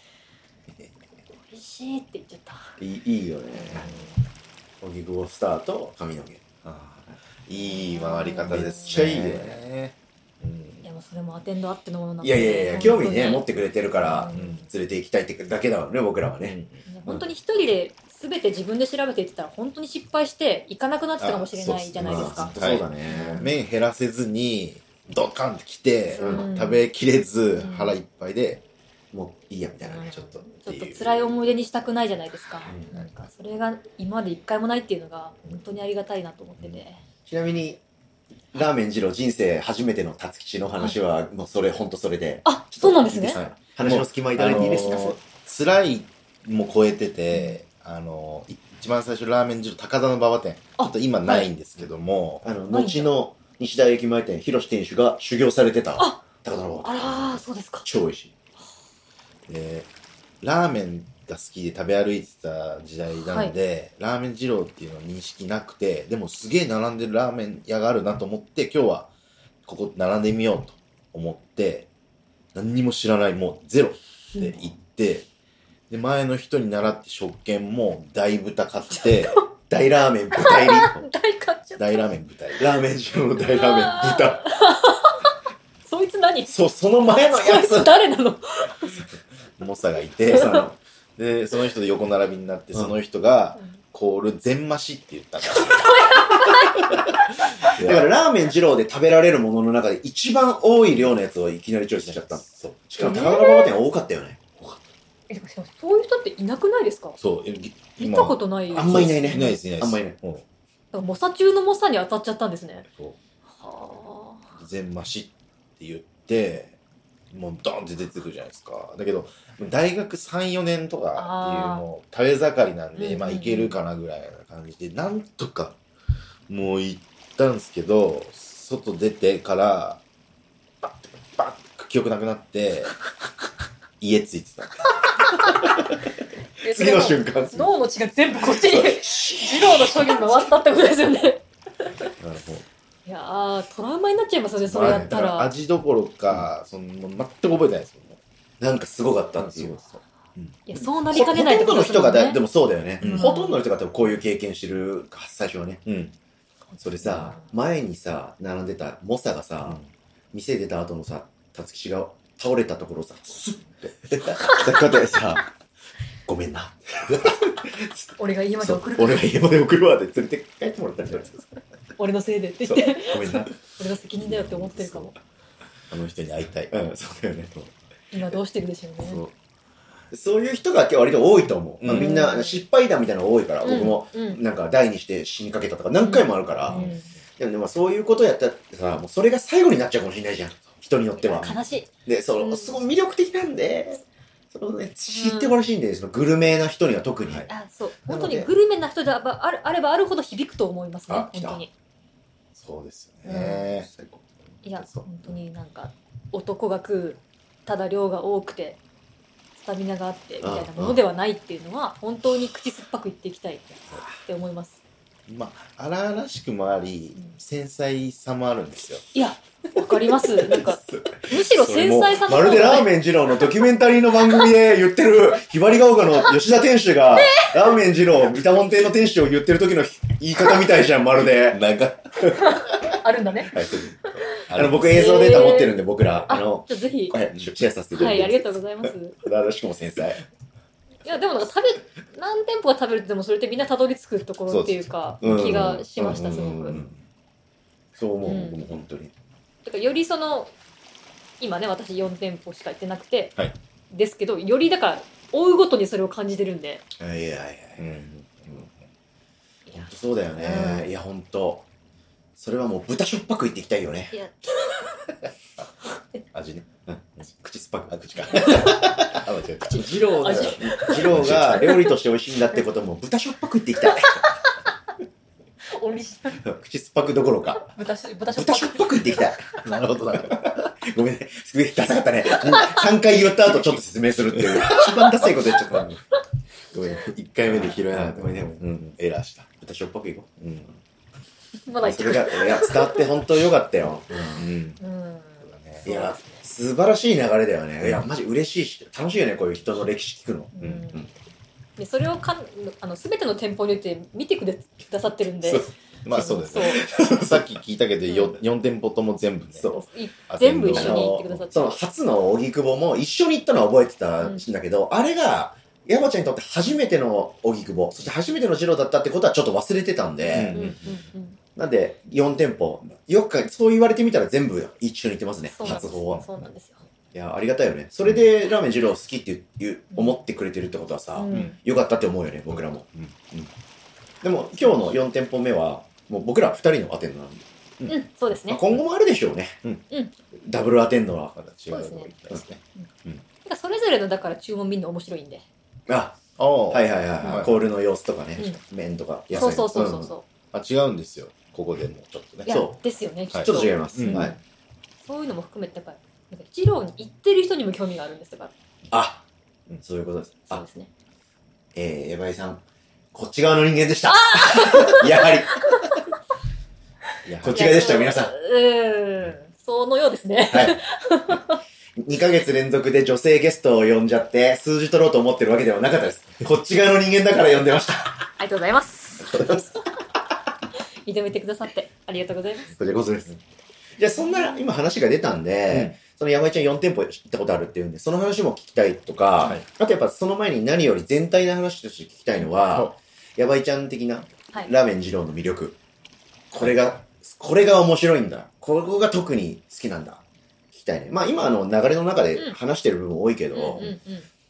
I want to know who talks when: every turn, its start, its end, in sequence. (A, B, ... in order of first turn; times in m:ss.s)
0:01.5-0:02.8 A
0:02.8-0:03.9 B
0:03.6-0:04.2 A
0:04.8-0:06.4 B
0:06.6-0:10.8 C
0:07.6-0:09.3 A
0:08.4-0:09.6 B
0:10.8-0:13.4 A
0:12.2-0:17.2 B
0:14.0-0:14.7 A
0:14.3-0:14.6 C
0:16.4-0:16.8 C
0:16.9-0:22.5 A
0:21.2-0:28.6 C
0:22.0-0:23.4 B
0:23.0-0:23.5 A
0:26.1-0:26.8 A
0:26.2-0:26.5 B
0:27.6-0:28.0 A
0:29.1-0:30.1 B
0:29.8-0:37.0 A
0:30.0-0:31.2 C
0:37.3-0:37.8 B
0:38.5-0:45.2 B
0:42.4-0:43.4 A
0:43.4-0:52.4 C
0:44.5-0:45.2 A
0:47.3-0:47.6 A
0:50.8-0:51.5 A
0:52.4-0:58.3 B
0:52.7-0:53.1 A
0:56.0-0:57.8 A
0:59.5-0:59.9 C
1:00.4-1:09.1 C
1:03.2-1:03.5 A
1:09.6-1:11.9 C
1:12.5-1:15.3 C
1:15.9-1:19.4 C
1:18.9-1:19.5 A
1:19.7-1:21.0 B
1:20.3-1:22.1 A
1:21.8-1:22.6 C
1:22.6-1:24.4 B
1:23.4-1:25.3 A
1:25.8-1:26.5 A
1:26.5-1:28.0 B
1:27.1-1:29.0 A
1:29.6-1:30.6 C
1:30.2-1:30.8 B
1:30.3-1:30.6 A
1:31.2-1:38.1 C
1:35.4-1:37.2 A
1:37.8-1:44.4 B
1:42.0-1:42.8 C
1:43.0-1:43.7 A
1:45.3-1:47.2 A
1:47.2-1:50.4 C
1:48.0-1:49.6 A
1:48.7-1:50.2 B
1:50.9-1:52.8 A
1:52.9-1:53.2 C
1:53.5-1:54.5 A
1:54.6-1:56.7 C
1:57.3-2:05.8 C
2:01.2-2:01.8 A
2:03.0-2:03.8 A
2:06.5-2:10.0 C
2:10.8-2:12.9 C
2:14.0-2:14.8 C
2:15.4-2:15.8 B
2:16.6-2:21.9 A
2:16.6-2:17.7 B
2:18.6-2:20.4 B
2:22.2-2:22.6 C
2:23.0-2:25.5 A
2:24.6-2:28.2 C
2:28.6-2:29.8 B
2:29.4-2:30.6 C
2:30.6-2:32.4 A
2:31.1-2:35.9 B
2:33.0-2:33.3 C
2:33.0-2:33.6 A
2:35.8-2:36.1 C
2:36.7-2:37.5 A
2:36.8-2:39.8 B
2:40.3-2:45.5 B
2:44.4-2:45.0 A
2:46.2-2:51.4 B
2:48.2-2:49.3 A
2:52.0-2:55.1 A
2:52.6-2:53.5 B
2:54.2-2:55.0 C
2:55.9-2:56.7 C
2:56.7-2:57.7 B
2:58.1-2:59.2 A
2:59.0-2:59.3 C
3:00.1-3:17.5 B
3:01.8-3:02.1 C
3:01.8-3:02.6 A
3:03.6-3:04.4 A
3:06.0-3:07.1 A
3:11.2-3:12.8 A
3:15.1-3:15.6 A
3:17.5-3:21.7 A
3:18.1-3:18.5 B
3:21.1-3:21.6 B
3:22.5-3:23.9 C
3:23.2-3:23.8 A
3:24.6-3:25.1 C
3:24.6-3:28.8 A
3:29.5-3:34.8 A
3:30.4-3:31.0 B
3:35.3-3:39.0 C
3:39.1-3:43.0 A
3:40.5-3:51.6 B
3:47.1-3:47.8 A
3:51.5-3:52.9 C
3:52.3-3:55.8 A
3:53.5-3:54.9 C
3:54.5-4:00.2 B
3:56.3-3:57.1 A
3:57.9-3:59.2 A
4:01.0-4:06.8 A
4:04.5-4:05.7 C
4:05.2-4:06.9 B
4:06.6-4:07.0 C
4:08.0-4:09.1 B
4:08.2-4:08.7 A
4:09.6-4:10.5 A
4:11.4-4:13.4 A
4:13.9-4:16.8 A
4:17.0-4:18.6 B
4:17.8-4:18.7 C
4:19.7-4:20.9 A
4:19.7-4:21.6 B
4:22.4-4:24.2 B
4:24.1-4:25.1 A
4:26.3-4:26.6 C
4:26.8-4:34.2 B
4:28.2-4:31.8 C
4:28.3-4:28.9 A
4:29.6-4:32.0 A
4:33.9-4:34.5 A
4:35.7-4:36.4 A
4:36.4-4:37.7 B
4:37.6-4:39.6 A
4:38.3-4:46.0 B
4:39.6-4:40.7 C
4:42.5-4:42.8 A
4:44.3-4:45.6 C
4:46.7-4:49.5 C
4:47.5-4:48.8 B
4:49.6-4:50.4 B
4:50.4-4:50.7 C
4:51.7-4:53.2 A
4:51.8-4:54.5 B
4:54.3-4:54.8 C
4:54.8-4:56.4 A
4:55.4-4:55.9 C
4:55.8-5:01.1 B
5:00.5-5:01.0 A
5:01.8-5:06.8 A
5:05.4-5:09.7 C
5:06.6-5:07.4 B
5:08.1-5:08.3 A
5:09.5-5:09.8 B
5:09.7-5:11.8 A
5:10.3-5:11.5 C
5:10.7-5:20.6 B
5:20.3-5:21.0 C
5:20.5-5:21.4 A
5:21.5-5:26.2 B
5:25.5-5:26.8 A
5:25.6-5:26.2 C
5:27.1-5:33.5 B
5:31.2-5:31.6 A
5:32.5-5:33.1 C
5:34.2-5:37.9 B
5:34.6-5:35.0 A
5:37.9-5:38.6 A
5:38.5-5:39.7 B
5:40.4-5:41.4 B
5:41.4-5:42.6 C
5:41.7-5:42.1 A
5:43.4-5:45.4 A
5:45.9-5:46.2 B
5:46.4-5:47.5 C
5:46.7-5:50.1 B
5:49.3-5:50.0 C
5:49.4-5:50.2 A
5:50.5-5:52.5 C
5:52.4-5:54.4 A
5:52.5-5:52.8 B
5:53.3-5:54.3 C
5:53.4-5:54.4 B
5:55.0-5:58.5 A
5:58.9-5:59.2 B
5:59.8-6:00.6 B
6:00.5-6:00.9 A
6:01.7-6:02.6 B
6:03.1-6:05.9 B
6:04.1-6:06.0 A
6:07.3-6:07.7 C
6:07.3-6:08.3 B
6:07.5-6:11.6 A
6:10.5-6:10.8 B
6:12.0-6:18.2 B
6:18.4-6:19.8 A
6:19.2-6:19.7 B
6:21.0-6:22.8 A
6:22.8-6:23.4 B
6:24.0-6:35.8 B
6:24.2-6:24.6 A
6:29.4-6:29.6 C
6:32.6-6:32.9 C
6:36.5-6:43.9 B
6:43.5-6:44.3 A